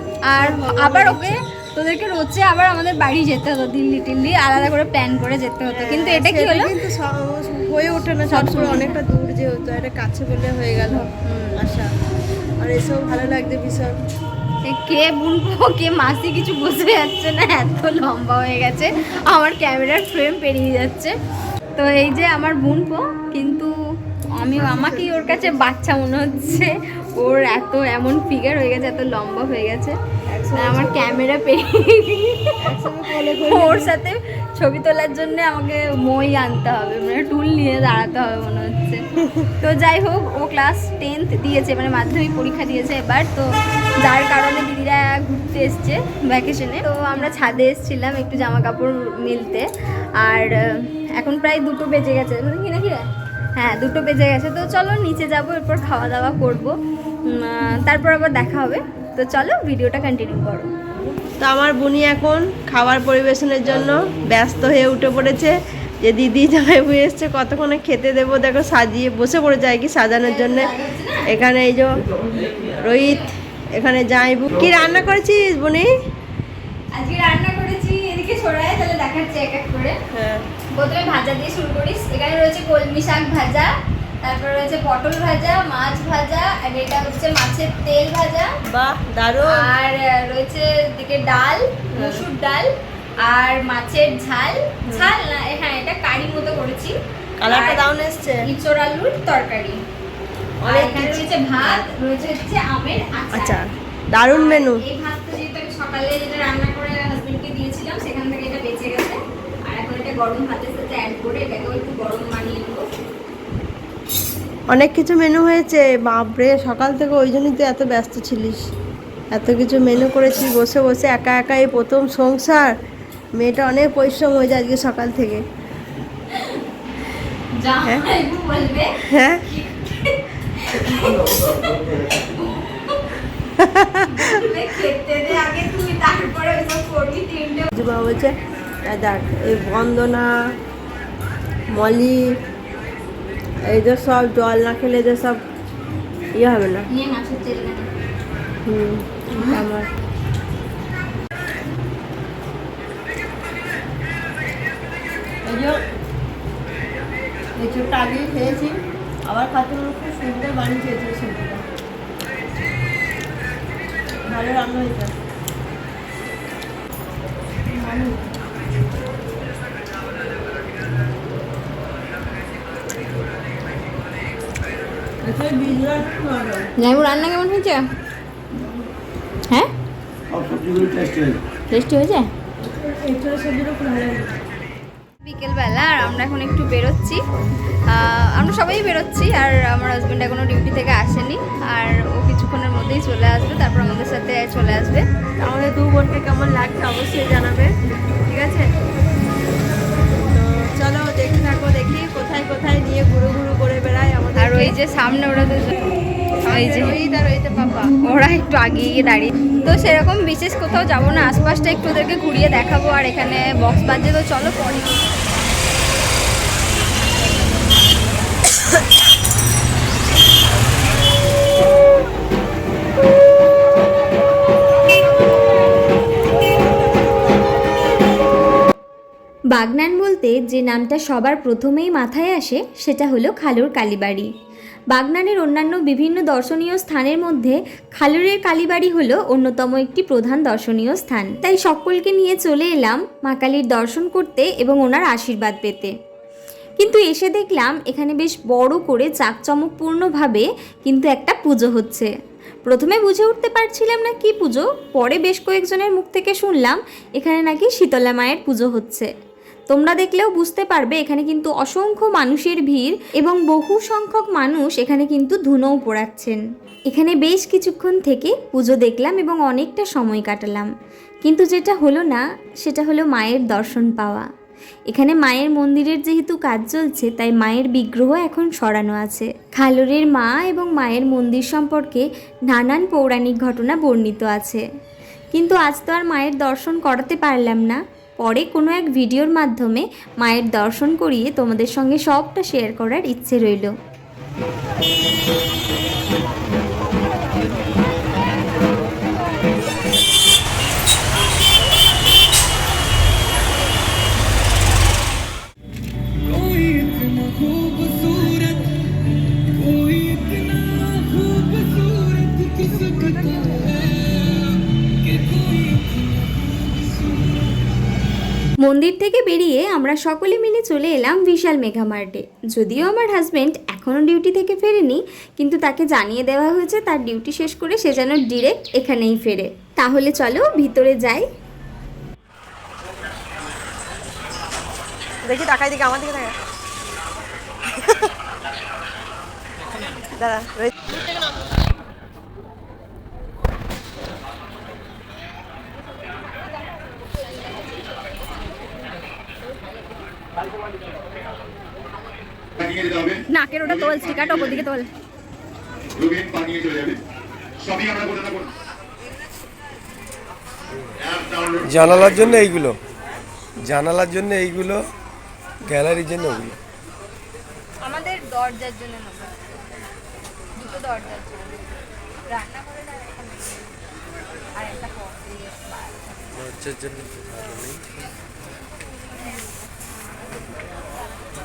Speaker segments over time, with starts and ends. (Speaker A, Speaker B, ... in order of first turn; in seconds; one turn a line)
Speaker A: 0.3-6.7
Speaker B: 0.4-1.4
Speaker B: 5.7-11.9
Speaker A: 8.3-9.0
Speaker A: 11.2-11.6
Speaker B: 12.6-13.9
Speaker A: 14.7-21.1
Speaker A: 21.8-23.7
Speaker A: 24.4-29.9
Speaker B: 24.6-25.6
Speaker B: 30.3-31.2
Speaker A: 30.6-32.5
Speaker B: 32.6-33.9
Speaker A: 33.4-39.0
Speaker A: 39.6-43.5
Speaker A: 44.0-49.7
Speaker A: 50.2-56.7
Speaker A: 57.3-60.7
Speaker B: 61.4-70.7
Speaker A: 70.2-71.3
Speaker B: 71.3-71.9
Speaker B: 72.6-75.9
Speaker A: 72.9-73.3
Speaker A: 76.9-80.0
Speaker B: 80.1-80.5
Speaker A: 80.7-83.7
Speaker A: 84.2-88.5
Speaker B: 88.7-89.7
Speaker A: 89.5-92.7
Speaker B: 92.0-92.2
Speaker A: 93.2-97.0
Speaker B: 94.9-95.1
Speaker B: 97.4-98.4
Speaker A: 97.5-97.8
Speaker A: 98.5-99.8
Speaker B: 100.6-101.8
Speaker A: 100.7-103.6
Speaker B: 103.3-104.8
Speaker A: 104.3-112.8
Speaker B: 114.7-118.6
Speaker B: 119.3-122.7
Speaker B: 123.4-125.4
Speaker A: 126.3-126.6
Speaker A: 127.6-128.9
Speaker B: 129.1-129.4
Speaker A: 129.4-133.2
Speaker B: 133.6-134.1
Speaker A: 134.1-137.7
Speaker B: 137.8-140.3
Speaker B: 141.7-142.2
Speaker B: 143.7-145.4
Speaker B: 146.4-146.8
Speaker A: 146.9-147.9
Speaker B: 148.7-149.9
Speaker A: 149.3-149.6
Speaker B: 155.5-155.8
Speaker B: 157.6-161.6
Speaker B: 164.3-165.1
Speaker B: 167.7-168.3
Speaker B: 175.2-176.7
Speaker A: 176.8-177.8
Speaker C: 180.3-181.4
Speaker A: 181.7-182.3
Speaker B: 182.7-184.3
Speaker A: 185.2-187.2
Speaker A: 187.9-195.0
Speaker B: 195.4-198.7
Speaker B: 200.3-204.7
Speaker A: 204.4-205.9
Speaker B: 206.5-207.9
Speaker A: 206.5-206.9
Speaker A: 208.0-214.9
Speaker D: 229.5-234.3
Speaker D: 234.9-245.9
Speaker D: 246.8-252.1
Speaker D: 252.7-259.1
Speaker D: 259.7-270.7
Speaker D: 271.3-274.2
Speaker D: 274.9-284.6
Speaker D: 285.3-293.8
Speaker D: 318.6-331.3
Speaker A: 318.7-331.2
Speaker B: 335.2-336.4
Speaker B: 337.8-338.1
Speaker B: 340.2-341.0
Speaker E: 352.6-353.2
Speaker A: 353.3-354.9
Speaker E: 356.0-357.0
Speaker E: 357.6-358.5
Speaker E: 361.1-361.6
Speaker C: 361.6-362.8
Speaker C: 363.6-364.9
Speaker C: 365.6-366.6
Speaker A: 367.8-369.7
Speaker A: 370.6-371.7
Speaker A: 372.3-373.8
Speaker A: 374.6-376.5
Speaker C: 376.4-377.9